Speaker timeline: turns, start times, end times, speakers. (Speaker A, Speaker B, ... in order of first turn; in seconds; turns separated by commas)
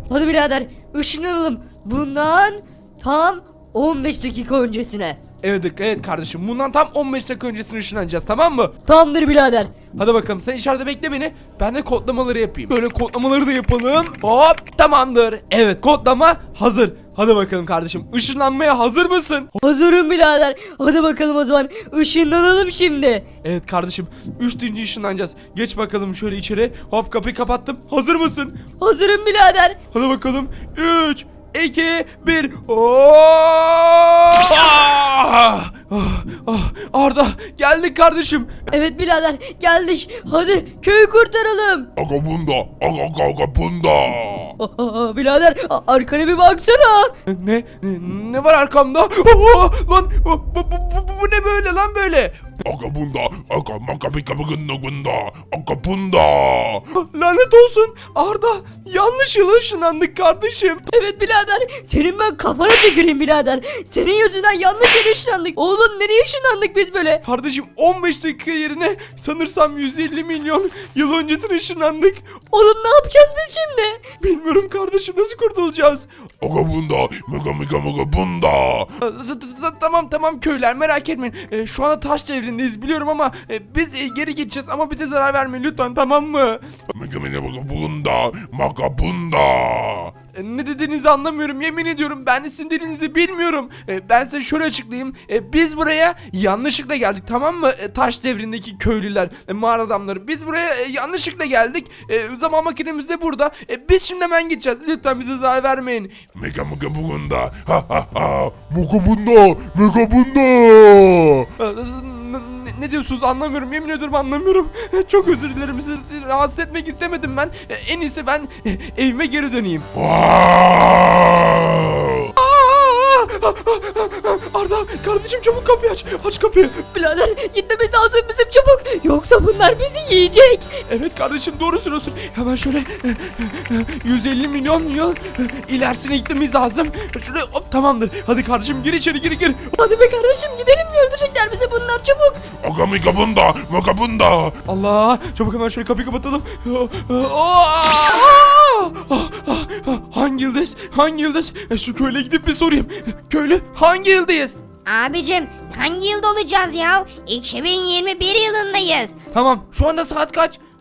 Speaker A: 0.1-5.2, Speaker B: 5.4-8.8, Speaker A: 8.9-9.7, Speaker B: 9.9-19.5, Speaker A: 19.6-23.3, Speaker B: 23.4-28.6, Speaker A: 28.8-29.8, Speaker B: 29.9-38.7, Speaker A: 38.7-41.9, Speaker C: 42.0-44.5, Speaker A: 44.6-47.1, Speaker B: 47.3-52.6, Speaker C: 52.6-56.9, Speaker B: 56.9-60.9, Speaker A: 60.9-67.2, Speaker B: 67.2-72.3, Speaker A: 72.5-74.0, Speaker B: 74.2-76.1, Speaker C: 76.4-78.9, Speaker B: 79.0-86.7, Speaker C: 86.9-90.1, Speaker B: 90.3-106.2, Speaker C: 106.3-111.5, Speaker B: 111.6-119.9, Speaker C: 119.9-122.3, Speaker B: 122.4-126.8, Speaker A: 126.9-130.7, Speaker B: 130.9-139.8, Speaker A: 139.8-142.4, Speaker C: 142.6-144.6, Speaker B: 144.7-154.6, Speaker D: 154.9-159.2, Speaker B: 159.3-160.6